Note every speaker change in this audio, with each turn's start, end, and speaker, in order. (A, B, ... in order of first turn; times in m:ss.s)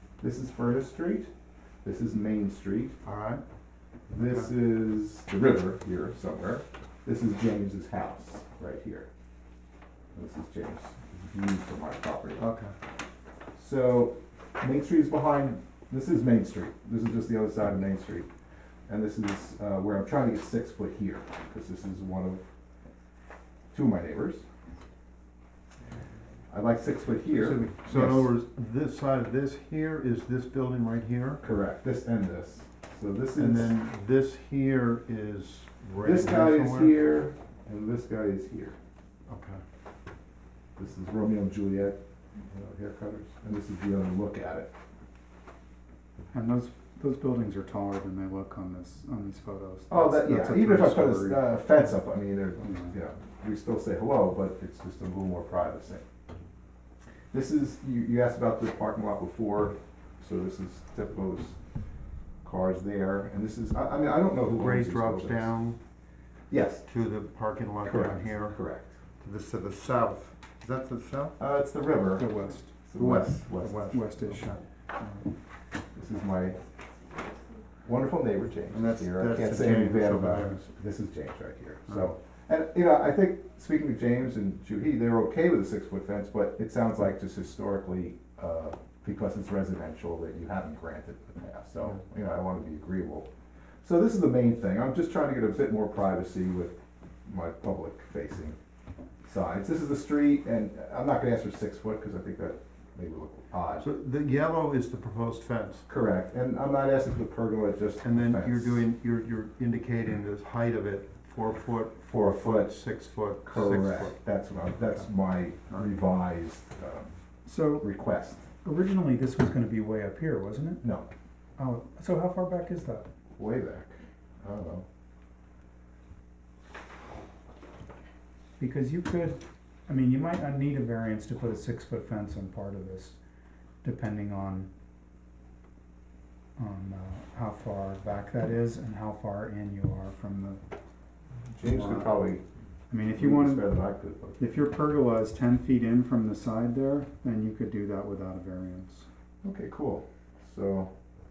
0:00.2-0:01.3 A
0:01.8-0:03.0 A
0:03.0-0:03.4 B
0:04.1-0:09.1 A
0:10.1-0:12.4 A
0:12.4-0:12.7 B
0:13.6-0:18.3 A
0:18.9-0:22.4 A
0:23.7-0:24.4 A
0:26.5-0:28.3 A
0:27.4-0:31.4 B
0:31.4-0:33.8 A
0:33.4-0:37.0 B
0:36.0-0:38.8 A
0:39.3-0:39.6 B
0:40.8-0:44.7 A
0:46.3-0:51.9 C
0:49.9-0:56.0 A
0:52.6-0:53.0 C
0:57.3-1:01.6 A
1:02.4-1:05.5 A
1:04.5-1:05.8 B
1:06.5-1:06.8 A
1:06.9-1:08.6 B
1:07.8-1:08.9 A
1:09.2-1:11.4 B
1:11.4-1:12.3 A
1:12.1-1:12.7 C
1:12.8-1:13.9 A
1:13.0-1:15.3 B
1:13.9-1:14.5 C
1:15.9-1:16.6 A
1:17.8-1:33.3 A
1:18.7-1:20.7 B
1:33.8-1:38.6 A
1:39.2-1:43.8 A
1:43.8-1:45.9 B
1:45.9-1:48.8 A
1:48.0-1:54.2 B
1:52.1-1:52.8 A
1:53.4-1:57.1 A
1:57.5-1:57.9 C
1:57.7-1:58.4 A
1:58.6-2:00.8 C
2:00.8-2:01.1 A
2:01.6-2:03.1 C
2:03.4-2:04.8 A
2:08.6-2:13.2 C
2:13.8-2:14.7 C
2:16.6-2:20.6 C
2:21.5-2:22.4 A
2:21.6-2:22.2 C
2:22.9-2:23.7 C
2:23.1-2:24.4 A
2:24.4-2:29.1 C
2:29.4-2:30.9 A